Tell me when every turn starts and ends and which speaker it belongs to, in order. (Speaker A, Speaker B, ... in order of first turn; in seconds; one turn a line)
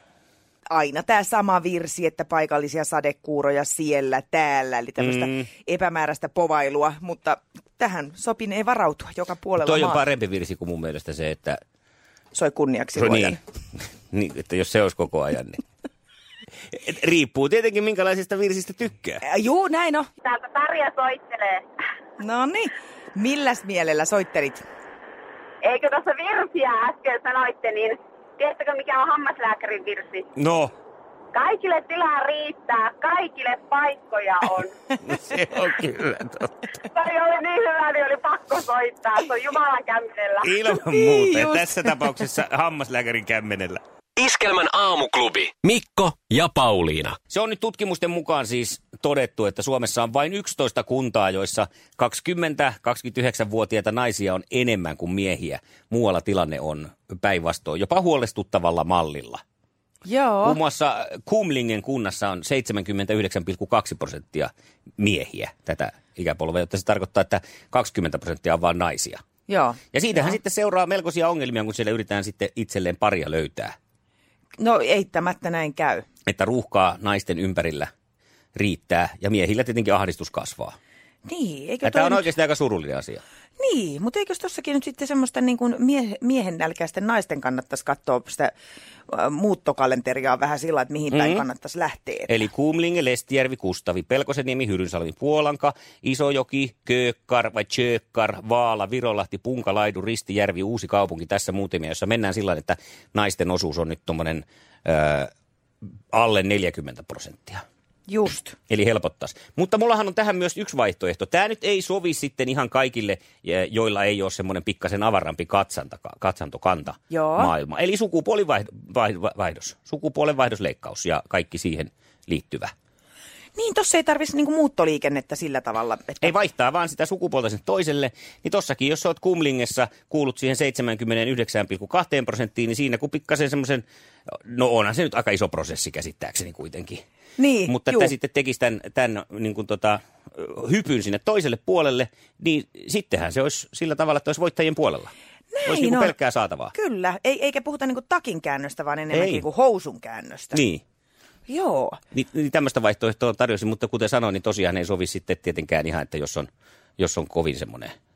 Speaker A: 0.7-10.0
Speaker B: 5.0-5.5
Speaker B: 9.6-11.6
Speaker A: 12.3-13.4
Speaker B: 12.9-13.4
Speaker B: 14.1-15.6
Speaker B: 16.7-19.2
Speaker A: 19.2-20.1
Speaker C: 20.2-21.6
Speaker A: 22.2-24.6
Speaker C: 25.6-30.3
Speaker B: 30.4-30.7
Speaker C: 31.3-34.7
Speaker B: 35.0-36.7
Speaker C: 36.9-40.5
Speaker B: 40.4-43.8
Speaker A: 40.8-41.9
Speaker D: 44.2-47.2
Speaker B: 47.3-59.4
Speaker A: 60.0-60.6
Speaker B: 60.4-69.2
Speaker A: 69.5-70.3
Speaker B: 69.9-73.7
Speaker A: 74.6-76.0
Speaker B: 76.2-77.9
Speaker B: 78.5-80.8
Speaker A: 81.2-82.3
Speaker B: 81.8-83.2
Speaker A: 83.6-88.5
Speaker A: 89.1-92.3
Speaker B: 91.1-91.4
Speaker B: 92.3-105.3
Speaker B: 106.1-107.6
Speaker A: 108.1-108.6
Speaker B: 108.7-122.7
Speaker A: 117.1-117.5
Speaker A: 123.5-126.3
Speaker B: 126.2-137.0
Speaker A: 137.4-138.1
Speaker B: 137.7-145.1
Speaker A: 145.5-146.2
Speaker B: 145.6-146.7
Speaker A: 146.7-150.6
Speaker B: 149.1-149.4
Speaker B: 150.5-150.8
Speaker A: 151.5-152.0
Speaker B: 152.1-157.9